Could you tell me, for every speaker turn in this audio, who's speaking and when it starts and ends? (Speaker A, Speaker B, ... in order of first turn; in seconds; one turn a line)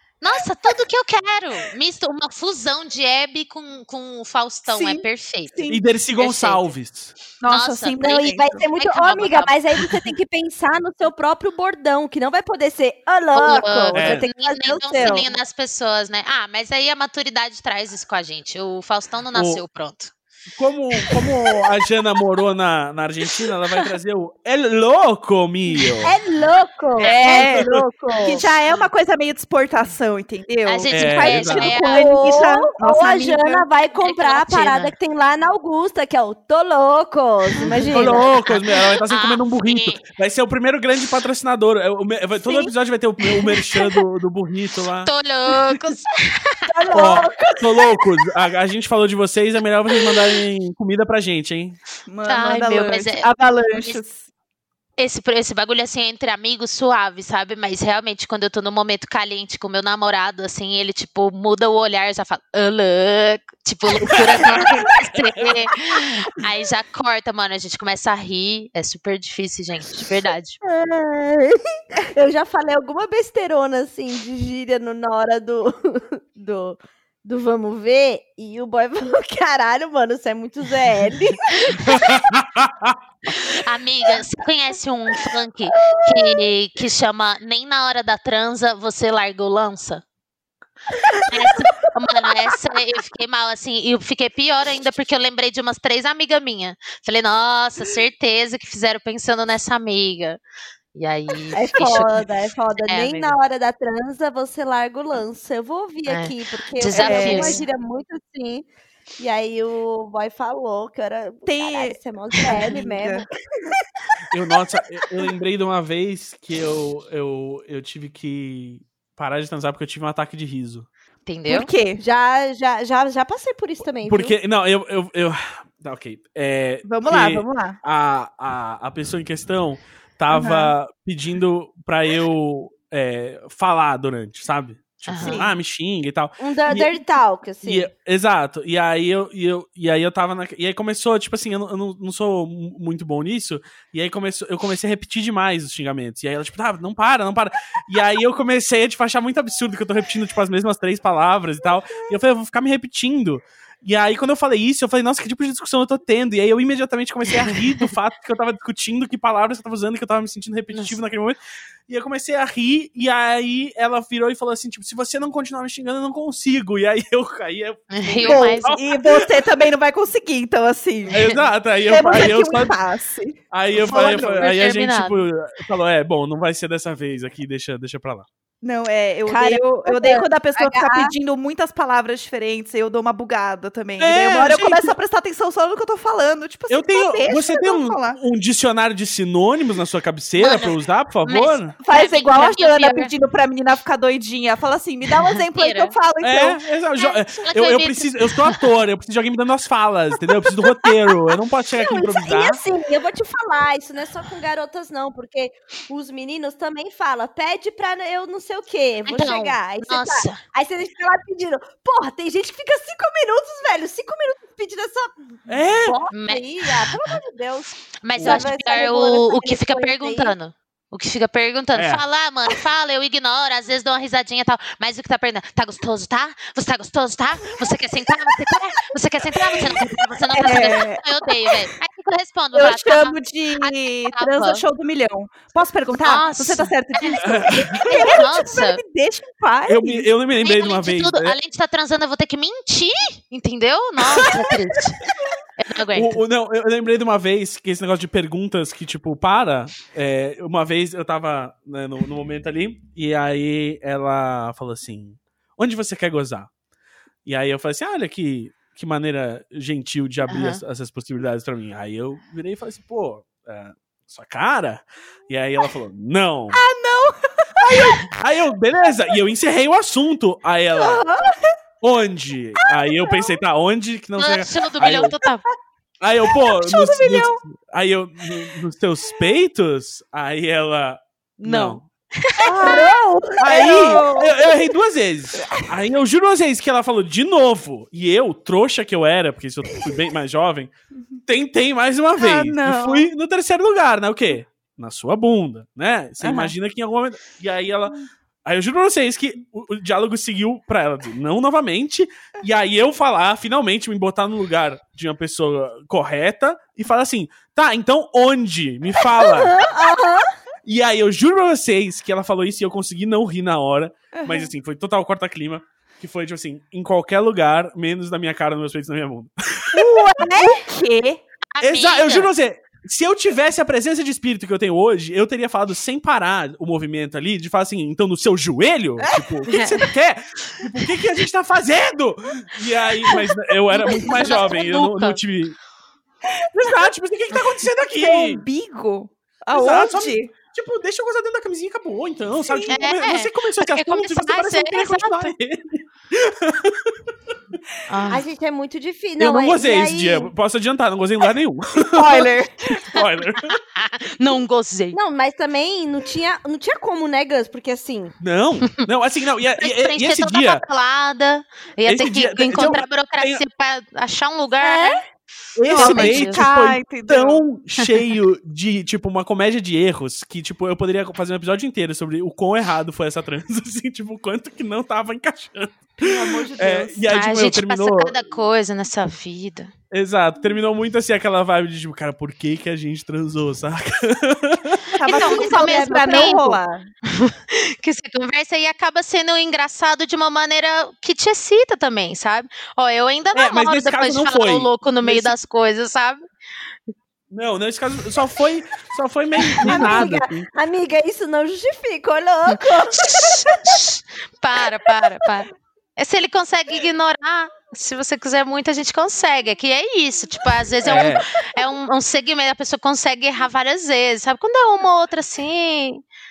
Speaker A: 0.2-6.7
Speaker B: 4.7-5.8
Speaker C: 5.7-7.1
Speaker B: 7.4-8.6
Speaker A: 7.5-9.5
Speaker D: 8.1-15.3
Speaker A: 13.3-20.1
Speaker C: 13.9-14.2
Speaker C: 19.3-19.6
Speaker C: 20.5-26.1
Speaker A: 21.0-21.3
Speaker D: 26.0-28.4
Speaker B: 27.0-33.7
Speaker C: 27.3-27.8
Speaker A: 28.4-28.9
Speaker A: 30.6-32.1
Speaker C: 30.9-31.7
Speaker D: 31.9-38.3
Speaker A: 34.0-34.9
Speaker A: 37.6-40.0
Speaker C: 37.9-45.1
Speaker A: 45.0-46.6
Speaker D: 46.7-47.6
Speaker B: 46.8-47.3
Speaker C: 46.9-51.8
Speaker B: 52.1-54.3
Speaker A: 52.3-54.0
Speaker A: 55.0-70.6
Speaker C: 64.0-65.7
Speaker D: 70.6-71.6
Speaker D: 72.1-81.9
Speaker C: 81.8-83.0
Speaker A: 83.3-90.0
Speaker A: 91.2-100.4
Speaker A: 100.9-102.2
Speaker D: 101.5-108.7
Speaker A: 102.9-103.4
Speaker A: 106.0-107.6
Speaker B: 106.9-107.6
Speaker D: 109.2-113.2
Speaker B: 111.5-113.3
Speaker C: 114.3-120.9
Speaker A: 121.2-121.7
Speaker B: 121.5-122.0
Speaker D: 122.0-124.3
Speaker C: 123.9-137.0
Speaker B: 126.8-127.8
Speaker B: 130.3-130.7
Speaker A: 135.1-135.4
Speaker B: 135.2-135.5
Speaker D: 136.4-137.9
Speaker C: 137.6-169.4
Speaker A: 167.9-168.7
Speaker B: 168.2-171.3
Speaker C: 171.1-172.8
Speaker B: 171.9-174.4
Speaker C: 173.5-178.3
Speaker A: 173.8-175.2
Speaker B: 178.6-188.2
Speaker D: 179.2-181.1
Speaker C: 184.0-184.9
Speaker C: 186.7-191.7
Speaker A: 190.4-193.1
Speaker B: 191.8-196.6
Speaker A: 195.2-195.9
Speaker C: 196.2-202.6
Speaker A: 197.0-198.6
Speaker D: 201.7-215.1
Speaker A: 209.1-210.4
Speaker C: 215.5-216.0
Speaker D: 215.8-220.3
Speaker A: 216.1-216.7
Speaker A: 218.0-234.6
Speaker C: 218.2-218.4
Speaker C: 221.7-222.0
Speaker B: 230.3-231.6
Speaker B: 232.5-240.1
Speaker A: 236.0-238.8
Speaker C: 237.2-238.1
Speaker C: 239.7-241.3
Speaker A: 240.4-246.2
Speaker C: 245.9-256.5
Speaker C: 257.2-266.6
Speaker A: 260.2-260.6
Speaker B: 266.5-268.1
Speaker C: 267.7-271.0
Speaker D: 270.9-271.1
Speaker C: 271.8-275.1
Speaker B: 272.8-273.3
Speaker A: 274.2-275.4
Speaker C: 276.0-281.9
Speaker B: 276.5-277.4
Speaker A: 281.4-282.8
Speaker B: 282.4-284.5
Speaker D: 282.6-284.2
Speaker C: 283.4-290.7
Speaker B: 285.4-285.7
Speaker C: 291.2-309.6
Speaker B: 292.2-293.1
Speaker B: 296.2-296.5
Speaker D: 309.2-310.3
Speaker C: 310.6-320.3
Speaker B: 314.1-314.5
Speaker B: 319.7-321.2
Speaker A: 321.5-322.3
Speaker C: 321.6-335.6
Speaker A: 329.5-329.8
Speaker A: 333.7-335.2
Speaker B: 336.4-336.9
Speaker C: 336.5-338.4
Speaker B: 338.0-340.3
Speaker C: 339.5-346.9
Speaker B: 342.4-342.7
Speaker A: 342.7-345.3
Speaker A: 347.9-348.2
Speaker D: 348.1-350.3
Speaker C: 349.2-353.6
Speaker B: 351.9-352.8
Speaker A: 353.5-355.0
Speaker D: 354.9-358.1
Speaker C: 358.2-360.6
Speaker A: 359.6-365.0
Speaker C: 361.9-363.4
Speaker D: 364.6-365.0
Speaker C: 365.6-378.1
Speaker B: 365.7-367.4
Speaker A: 365.8-366.4
Speaker B: 376.0-377.0
Speaker A: 377.1-379.7
Speaker C: 379.9-385.0
Speaker B: 385.0-386.9
Speaker A: 385.0-396.2
Speaker D: 385.1-386.4
Speaker C: 393.3-395.4
Speaker C: 397.3-400.5
Speaker B: 399.6-400.2
Speaker D: 399.7-403.6
Speaker A: 402.5-416.0
Speaker C: 410.8-411.2